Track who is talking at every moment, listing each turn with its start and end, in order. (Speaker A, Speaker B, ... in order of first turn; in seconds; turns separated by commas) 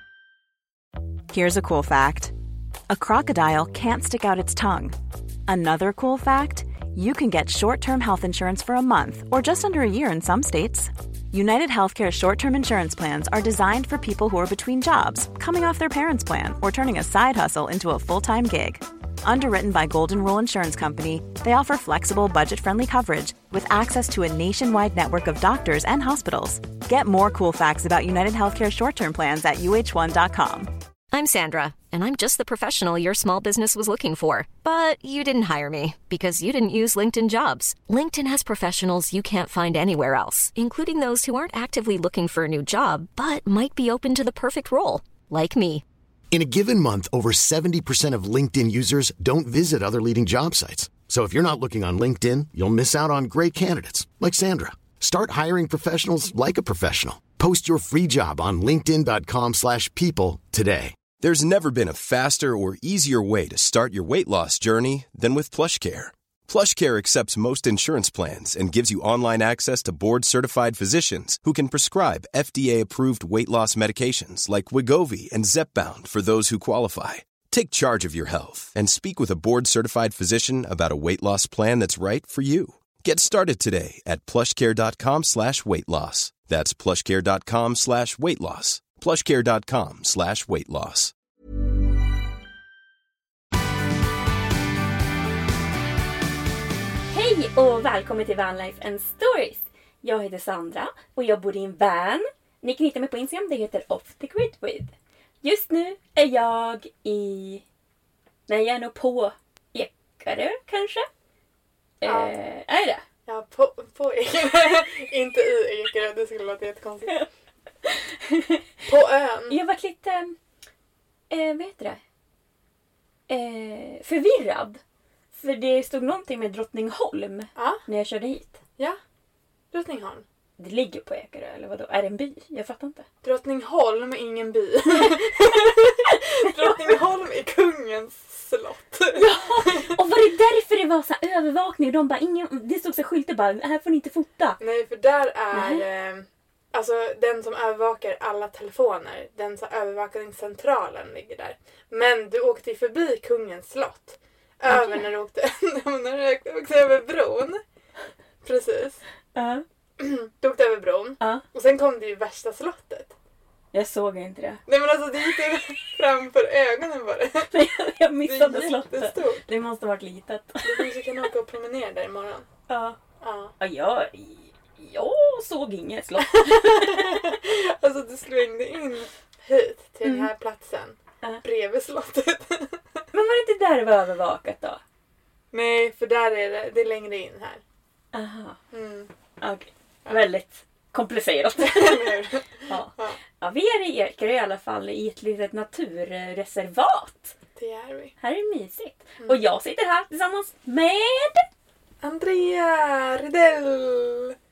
Speaker A: 1.3-2.3, Speaker A: 2.9-30.7, Speaker B: 31.1-45.8, Speaker C: 46.3-61.0, Speaker D: 61.2-91.1, Speaker E: 97.1-107.6, Speaker E: 108.5-111.1, Speaker E: 112.0-113.0, Speaker F: 112.0-112.3, Speaker F: 113.3-117.2, Speaker E: 117.8-118.6, Speaker F: 118.9-119.6, Speaker E: 119.5-120.4, Speaker E: 121.3-122.0, Speaker E: 123.3-124.8, Speaker E: 125.3-128.6, Speaker F: 127.6-127.8, Speaker F: 129.7-130.2, Speaker E: 130.6-133.0, Speaker F: 133.2-139.9, Speaker E: 136.1-137.0, Speaker E: 139.2-144.6, Speaker F: 144.6-157.6, Speaker E: 145.5-145.8, Speaker E: 154.7-155.1, Speaker F: 158.4-159.0, Speaker E: 159.3-159.6, Speaker F: 160.0-163.1, Speaker E: 163.7-164.6, Speaker F: 164.7-167.5, Speaker E: 167.5-171.1, Speaker F: 168.3-169.4, Speaker F: 170.6-172.5, Speaker E: 172.7-173.0, Speaker F: 173.2-173.6, Speaker E: 173.6-177.3, Speaker F: 176.3-182.8, Speaker E: 183.1-184.8, Speaker F: 185.5-187.6, Speaker E: 188.1-188.6, Speaker F: 188.7-189.1, Speaker E: 189.4-197.3, Speaker F: 191.6-193.2, Speaker F: 197.6-198.1, Speaker E: 198.2-201.5, Speaker F: 202.0-204.4